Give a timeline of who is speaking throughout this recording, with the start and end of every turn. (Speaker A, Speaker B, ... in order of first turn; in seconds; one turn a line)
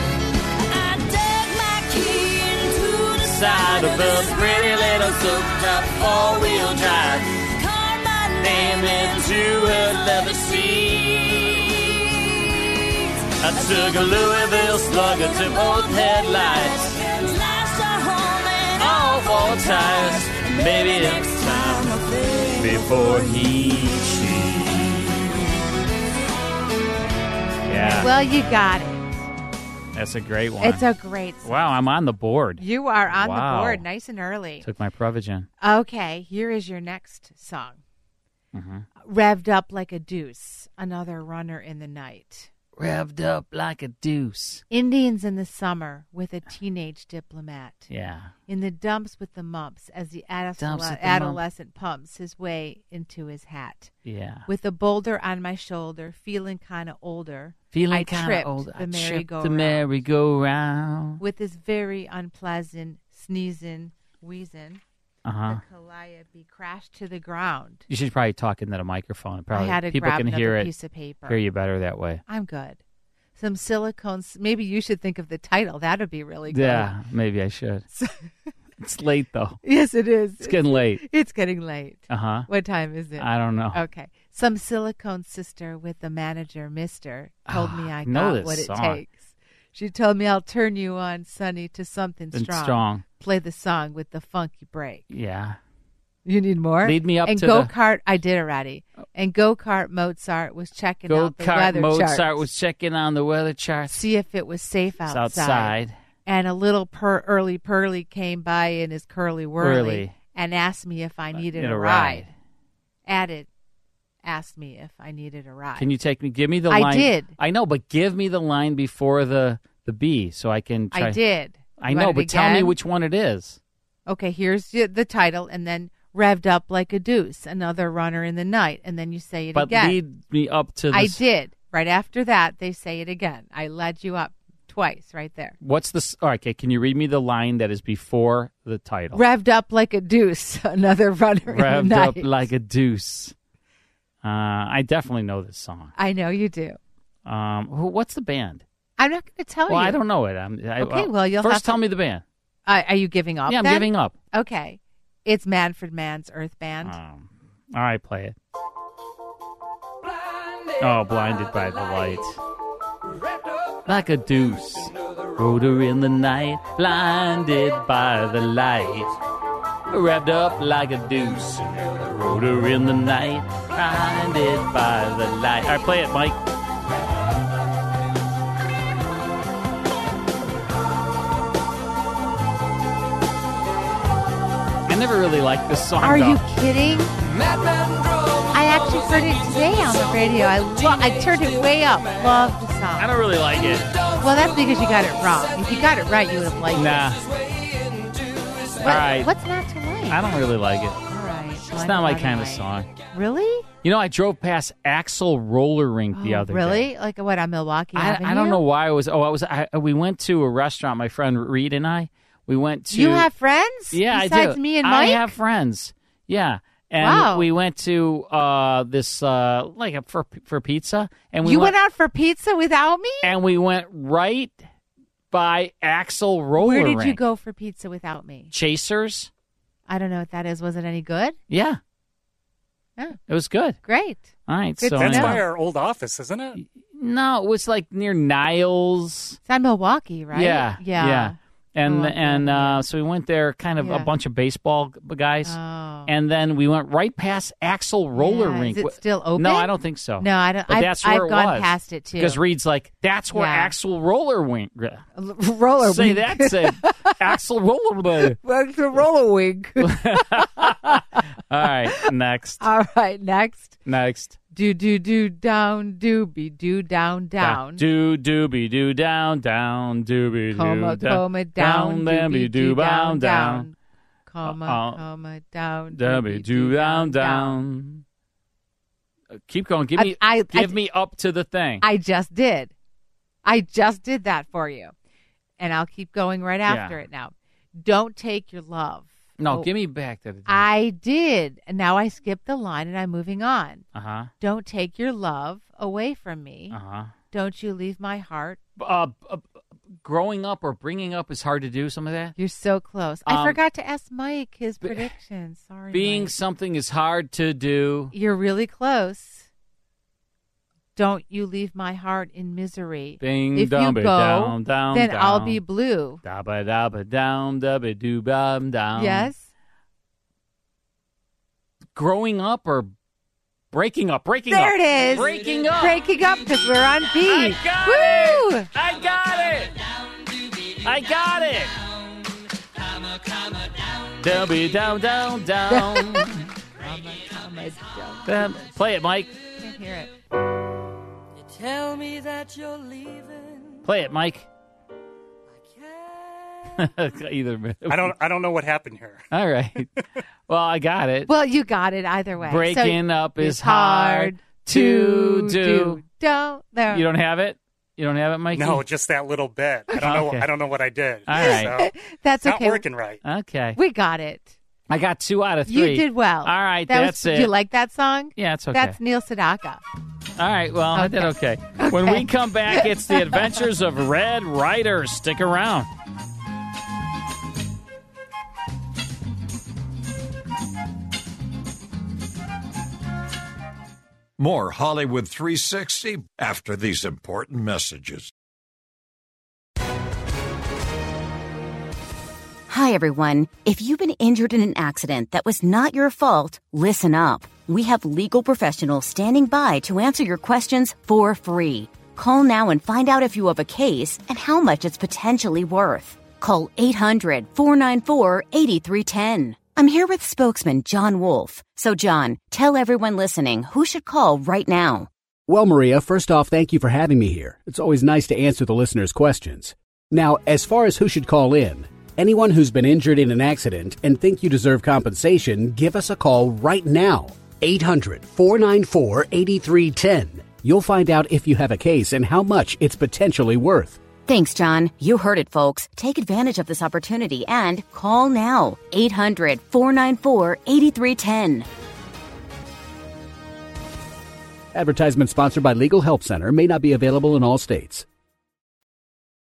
Speaker A: 0.7-25.4
Speaker B: 3.2-7.3
Speaker B: 8.4-12.0
Speaker B: 13.4-17.0
Speaker B: 18.8-21.9
Speaker B: 22.6-25.3
Speaker B: 27.6-28.1
Speaker C: 27.7-29.3
Speaker B: 29.9-30.8
Speaker C: 30.6-31.4
Speaker B: 31.4-33.8
Speaker C: 32.6-34.6
Speaker B: 34.6-35.5
Speaker C: 35.6-37.8
Speaker B: 38.5-38.9
Speaker C: 39.0-42.5
Speaker B: 42.8-44.6
Speaker C: 44.7-47.9
Speaker B: 47.9-48.3
Speaker C: 48.5-53.9
Speaker B: 50.6-51.4
Speaker B: 54.0-54.5
Speaker C: 54.5-59.8
Speaker B: 57.7-61.2
Speaker C: 61.2-64.8
Speaker B: 65.2-65.6
Speaker C: 65.5-67.8
Speaker B: 67.9-70.7
Speaker C: 69.5-71.4
Speaker B: 71.3-72.2
Speaker C: 72.3-72.8
Speaker C: 73.4-76.9
Speaker B: 76.5-77.8
Speaker C: 77.9-78.3
Speaker B: 78.8-79.6
Speaker C: 79.6-95.1
Speaker B: 80.4-81.0
Speaker B: 82.1-82.5
Speaker B: 83.2-83.8
Speaker B: 87.5-89.0
Speaker B: 92.3-93.0
Speaker B: 95.1-95.6
Speaker C: 96.2-102.4
Speaker B: 96.8-97.7
Speaker B: 101.1-104.0
Speaker C: 103.9-105.8
Speaker B: 105.1-106.0
Speaker C: 106.2-112.3
Speaker B: 109.6-110.1
Speaker B: 111.3-112.3
Speaker C: 113.1-113.5
Speaker C: 114.2-115.9
Speaker B: 115.8-121.2
Speaker C: 116.7-117.3
Speaker C: 120.9-122.8
Speaker B: 121.8-123.6
Speaker C: 124.1-130.0
Speaker B: 129.5-131.2
Speaker C: 130.9-135.6
Speaker B: 135.6-139.2
Speaker C: 139.1-142.4
Speaker B: 141.5-143.3
Speaker B: 144.2-145.9
Speaker C: 145.9-146.8
Speaker B: 147.2-148.6
Speaker C: 149.0-150.0
Speaker B: 149.7-152.2
Speaker C: 150.8-151.8
Speaker C: 152.7-156.9
Speaker B: 153.5-154.2
Speaker B: 156.8-158.3
Speaker B: 160.8-162.4
Speaker B: 163.8-169.1
Speaker B: 169.9-176.4
Speaker B: 184.9-186.4
Speaker C: 186.0-187.1
Speaker C: 188.5-193.1
Speaker B: 193.0-193.9
Speaker C: 194.2-197.1
Speaker B: 196.8-197.2
Speaker C: 198.8-200.2
Speaker B: 198.8-199.3
Speaker B: 200.1-201.0
Speaker C: 201.1-203.7
Speaker B: 201.8-202.9
Speaker B: 203.8-206.9
Speaker C: 206.1-208.6
Speaker B: 207.9-213.3
Speaker C: 212.9-215.3
Speaker B: 213.9-221.8
Speaker C: 217.0-217.5
Speaker C: 221.4-223.3
Speaker B: 223.2-224.6
Speaker B: 225.3-227.2
Speaker C: 226.6-228.5
Speaker B: 228.5-229.3
Speaker C: 229.9-231.3
Speaker B: 231.5-231.8
Speaker B: 233.3-233.8
Speaker C: 233.8-234.3
Speaker B: 234.5-235.4
Speaker C: 234.8-235.4
Speaker D: 235.0-236.6
Speaker B: 236.6-239.4
Speaker C: 239.4-242.8
Speaker B: 240.3-255.1
Speaker C: 243.8-244.1
Speaker C: 245.4-246.1
Speaker C: 248.2-252.4
Speaker C: 253.3-253.7
Speaker C: 255.2-257.1
Speaker B: 255.8-258.4
Speaker C: 258.3-261.2
Speaker B: 259.8-262.6
Speaker C: 262.6-263.8
Speaker B: 263.8-264.4
Speaker C: 264.5-267.8
Speaker B: 267.4-273.7
Speaker C: 270.5-273.7
Speaker C: 274.3-277.6
Speaker B: 274.4-275.0
Speaker B: 275.9-278.0
Speaker B: 279.4-281.8
Speaker C: 280.0-280.8
Speaker C: 281.8-282.7
Speaker C: 283.4-284.9
Speaker C: 285.6-289.7
Speaker B: 286.7-287.0
Speaker B: 289.4-290.7
Speaker C: 290.4-293.9
Speaker B: 293.9-294.3
Speaker C: 294.4-296.8
Speaker B: 296.7-297.1
Speaker C: 297.3-298.6
Speaker B: 298.8-299.4
Speaker B: 300.0-302.4
Speaker C: 302.4-306.3
Speaker B: 303.2-303.6
Speaker B: 305.9-308.1
Speaker C: 308.1-309.5
Speaker C: 310.9-316.2
Speaker B: 313.2-315.6
Speaker B: 316.2-319.3
Speaker C: 318.9-319.5
Speaker B: 321.9-322.9
Speaker B: 323.7-326.0
Speaker C: 324.5-328.7
Speaker B: 327.2-329.8
Speaker B: 330.8-331.8
Speaker B: 334.2-336.4
Speaker C: 335.7-338.5
Speaker B: 338.2-339.3
Speaker C: 339.6-340.1
Speaker B: 343.8-344.5
Speaker B: 346.8-348.1
Speaker D: 347.9-349.3
Speaker B: 349.3-349.9
Speaker B: 350.5-351.3
Speaker C: 351.3-357.0
Speaker B: 352.4-356.0
Speaker B: 356.9-358.8
Speaker D: 358.5-361.9
Speaker B: 360.0-360.5
Speaker B: 361.2-361.8
Speaker C: 361.4-362.9
Speaker D: 362.4-363.2
Speaker B: 363.2-363.8
Speaker C: 363.8-364.5
Speaker B: 364.9-367.5
Speaker C: 365.7-369.8
Speaker B: 368.4-369.0
Speaker B: 370.4-375.9
Speaker C: 370.9-373.6
Speaker E: 384.4-388.3
Speaker F: 392.7-415.1
Speaker G: 415.5-434.0
Speaker F: 434.3-441.7
Speaker G: 444.7-448.1